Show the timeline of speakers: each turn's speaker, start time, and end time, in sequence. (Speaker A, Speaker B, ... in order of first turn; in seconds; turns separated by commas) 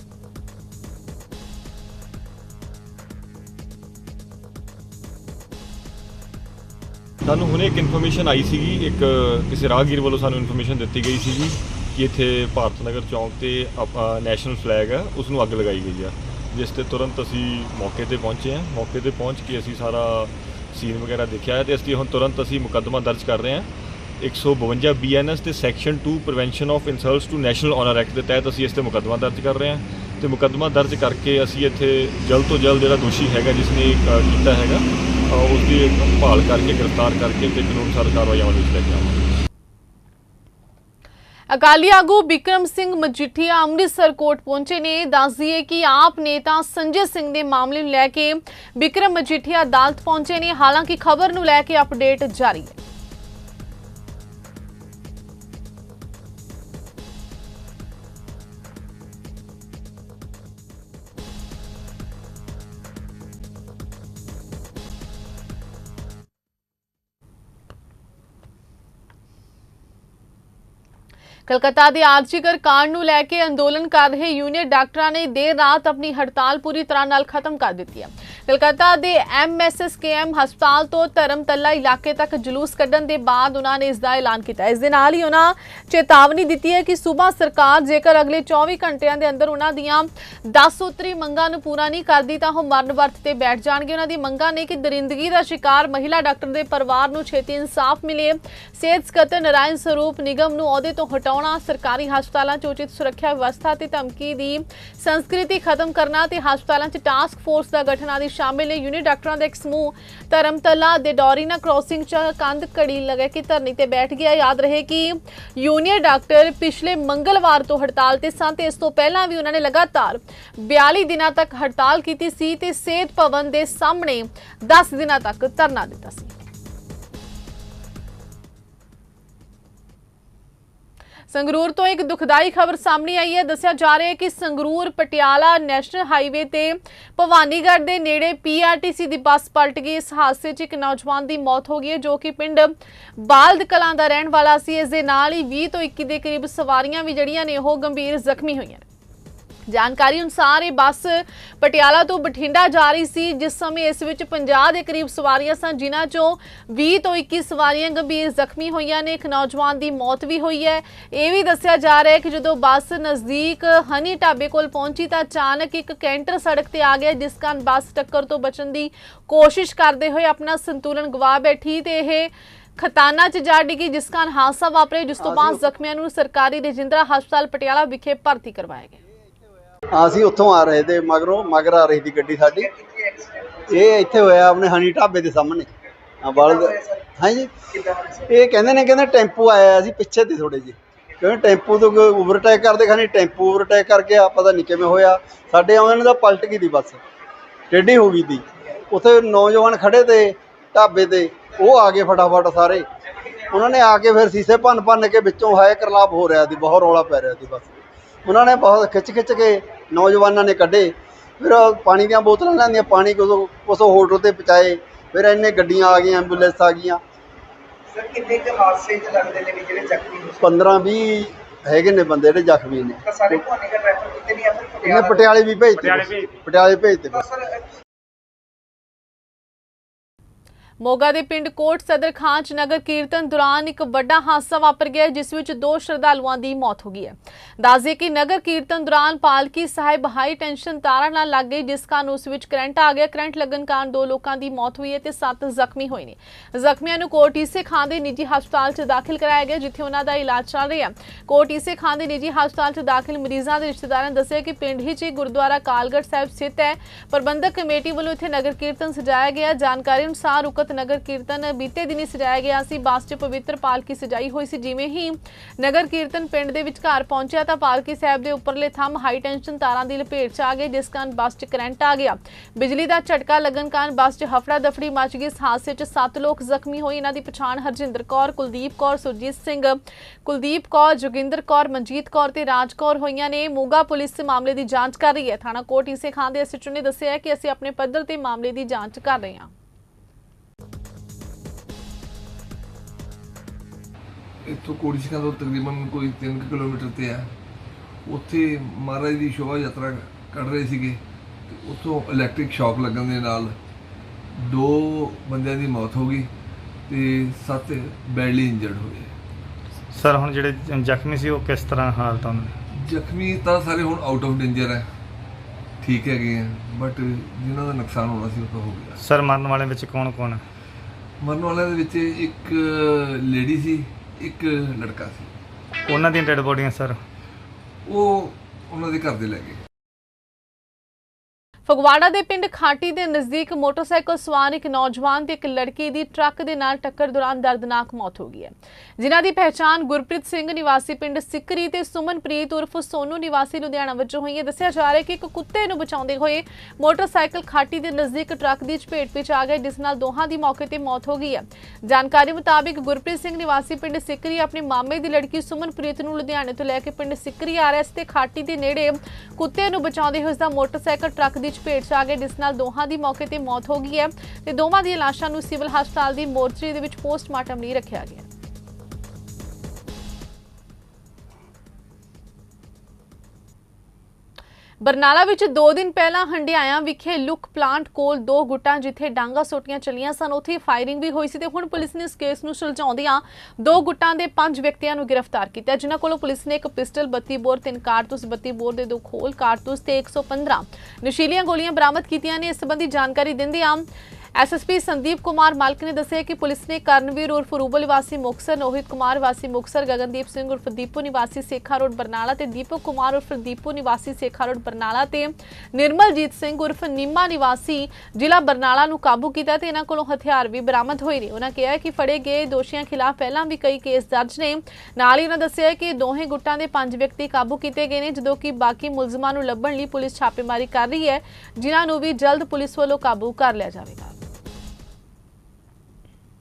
Speaker A: 7.2-23.7, Speaker A: 24.2-39.3, Speaker B: 41.5-52.8, Speaker B: 71.5-126.3, Speaker B: 131.3-148.8, Speaker B: 149.7-179.0, Speaker C: 175.2-175.6, Speaker C: 179.9-182.7, Speaker D: 182.6-183.6, Speaker C: 183.7-185.7, Speaker C: 186.2-187.5, Speaker D: 186.4-187.0, Speaker D: 187.7-188.3, Speaker C: 188.3-197.0, Speaker C: 197.7-202.8, Speaker C: 203.5-217.0, Speaker D: 217.9-220.5, Speaker C: 220.4-223.4, Speaker D: 223.1-225.3, Speaker C: 224.8-227.3, Speaker D: 227.2-227.6, Speaker B: 230.8-289.5, Speaker E: 294.6-297.1, Speaker E: 298.1-300.9, Speaker E: 301.6-303.4, Speaker E: 304.5-306.2, Speaker E: 306.9-309.0, Speaker F: 309.9-312.5, Speaker E: 312.9-314.8, Speaker E: 315.8-318.9, Speaker F: 319.0-320.4, Speaker E: 321.2-322.5, Speaker E: 323.3-323.7, Speaker E: 324.2-325.2, Speaker F: 325.9-327.0, Speaker E: 328.7-329.5, Speaker B: 331.7-368.2, Speaker B: 374.8-424.2